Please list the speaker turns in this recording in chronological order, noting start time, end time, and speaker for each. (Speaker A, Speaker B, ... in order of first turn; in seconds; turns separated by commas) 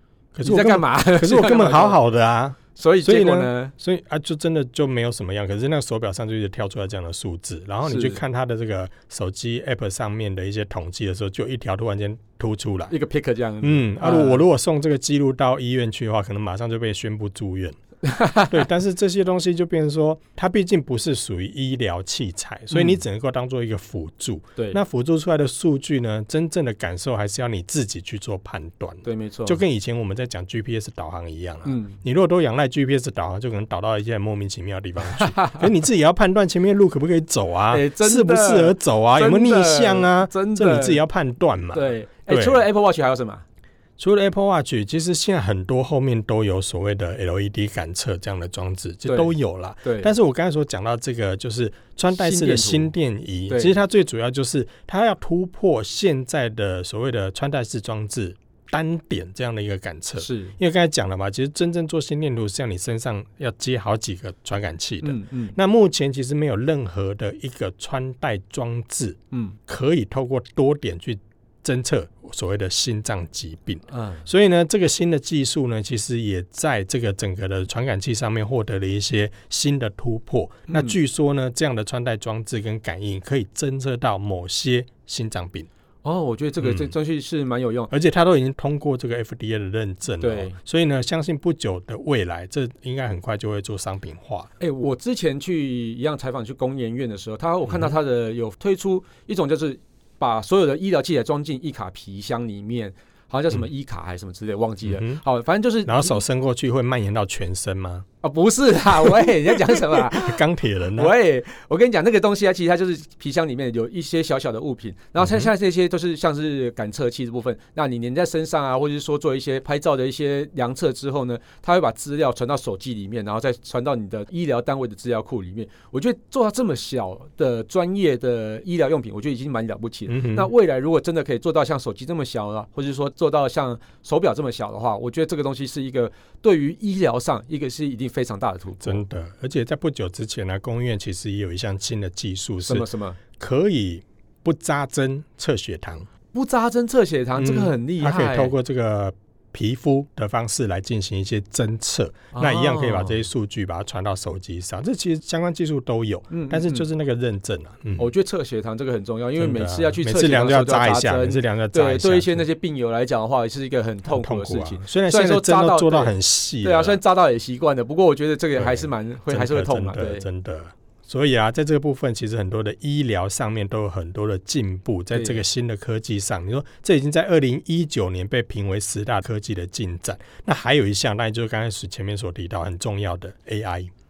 Speaker A: 0.3-12.9, Speaker B: 0.4-2.0, Speaker B: 2.7-3.7, Speaker B: 7.8-8.2, Speaker B: 12.9-14.4, Speaker A: 13.6-17.8, Speaker B: 18.0-18.6, Speaker A: 18.5-42.6, Speaker B: 22.7-23.0, Speaker B: 29.0-29.6, Speaker B: 31.6-32.0, Speaker B: 35.1-35.6, Speaker B: 37.7-41.0, Speaker B: 41.7-43.4, Speaker A: 44.0-85.7, Speaker B: 49.0-50.1, Speaker B: 52.1-52.9, Speaker B: 53.5-53.8, Speaker B: 60.2-60.5, Speaker B: 65.0-65.5, Speaker B: 69.3-69.6, Speaker B: 73.9-74.2, Speaker B: 80.7-81.0, Speaker B: 86.0-87.9, Speaker A: 86.6-86.9, Speaker A: 87.9-94.5, Speaker B: 90.2-90.5, Speaker B: 94.6-106.2, Speaker A: 97.7-97.9, Speaker A: 104.8-105.2, Speaker A: 105.8-108.0, Speaker B: 108.2-110.4, Speaker A: 109.0-111.1, Speaker B: 111.0-139.0, Speaker A: 115.2-115.5, Speaker A: 130.1-130.5, Speaker A: 138.8-146.1, Speaker B: 142.6-143.2, Speaker B: 146.3-148.5, Speaker A: 147.4-158.1, Speaker B: 152.3-153.2, Speaker B: 156.3-156.9, Speaker B: 158.0-170.2, Speaker A: 159.4-162.4, Speaker A: 164.1-167.0, Speaker A: 168.6-183.9, Speaker B: 175.1-175.4